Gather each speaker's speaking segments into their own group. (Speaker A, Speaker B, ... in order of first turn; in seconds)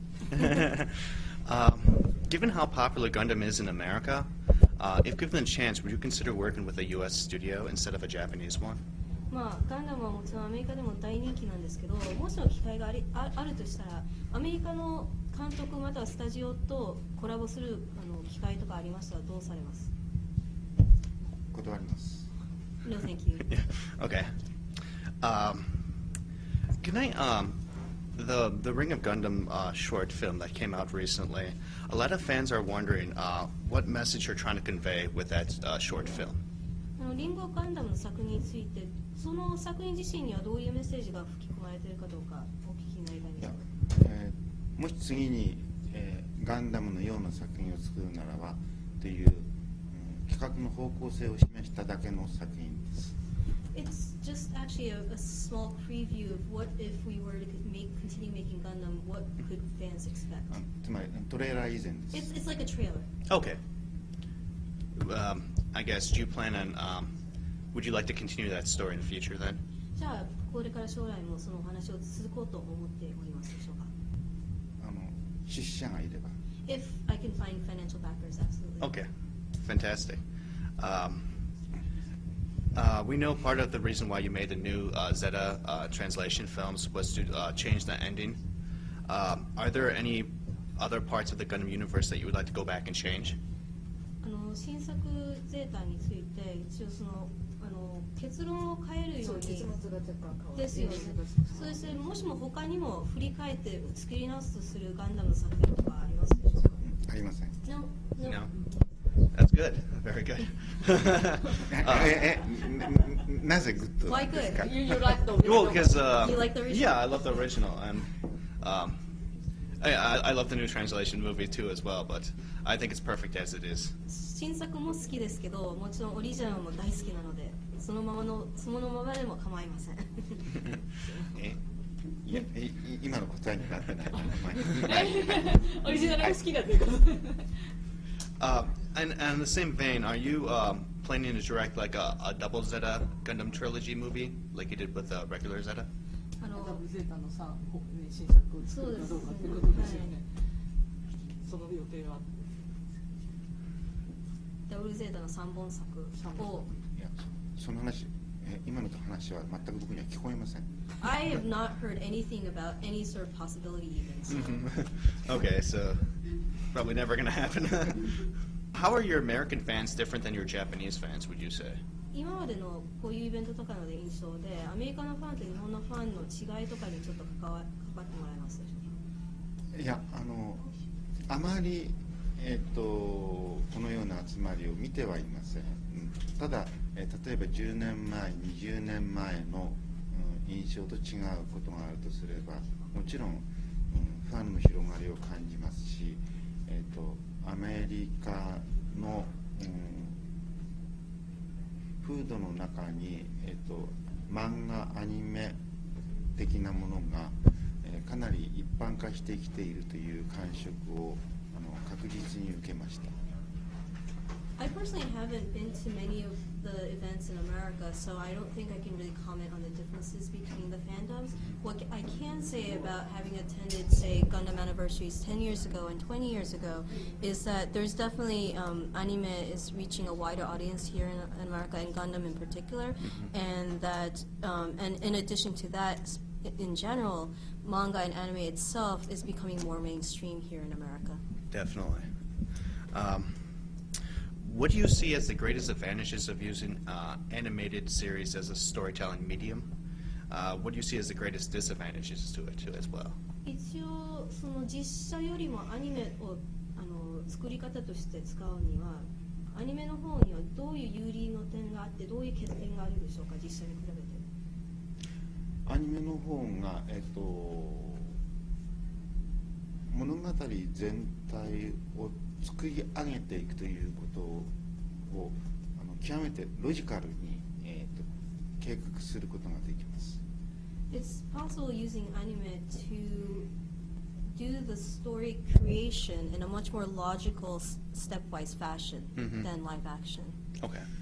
Speaker A: 0.3-8.8, 23.5-24.3, 25.2-25.8, 26.8-27.5, 28.1-36.4, 63.3-63.6, 65.0-67.1, 67.7-69.6, 79.6-80.2, 80.8-81.3, 82.7-88.4, 89.1-93.4, 108.2-108.5, 109.3-112.2, 115.4-119.0, 119.8-123.9, 131.3-131.6, 138.4-145.9, 164.3-166.2, 166.7-171.8, 241.5-242.1, 242.9-243.4, 244.4-249.7, 250.3-253.2, 289.1-289.5, 290.6-290.9
Speaker B: 9.3-19.9, 22.8-23.5, 37.0-43.6, 53.7-60.5, 62.1-63.1, 69.9-73.9, 76.7-78.9, 94.2-99.7, 100.5-106.8, 107.6-108.4, 114.1-114.6, 116.1-117.2, 124.1-130.6, 146.4-146.8, 148.7-150.2, 154.7-156.7, 161.0-164.7, 172.1-178.9, 214.6-241.2, 253.4-264.2, 280.9-283.5, 284.3-290.4
Speaker C: 21.5-22.3, 43.4-53.1, 60.5-62.3, 74.8-76.3, 106.8-107.5, 111.7-114.9, 132.2-135.4, 156.9-160.6, 179.7-180.6, 181.3-200.2, 202.0-205.6, 206.3-213.1, 265.6-268.1, 269.9-274.5, 275.1-278.1, 278.6-280.2
Speaker D: 99.2-101.8, 114.6-116.2, 134.7-137.5, 146.5-150.2, 151.4-152.2, 156.2-156.6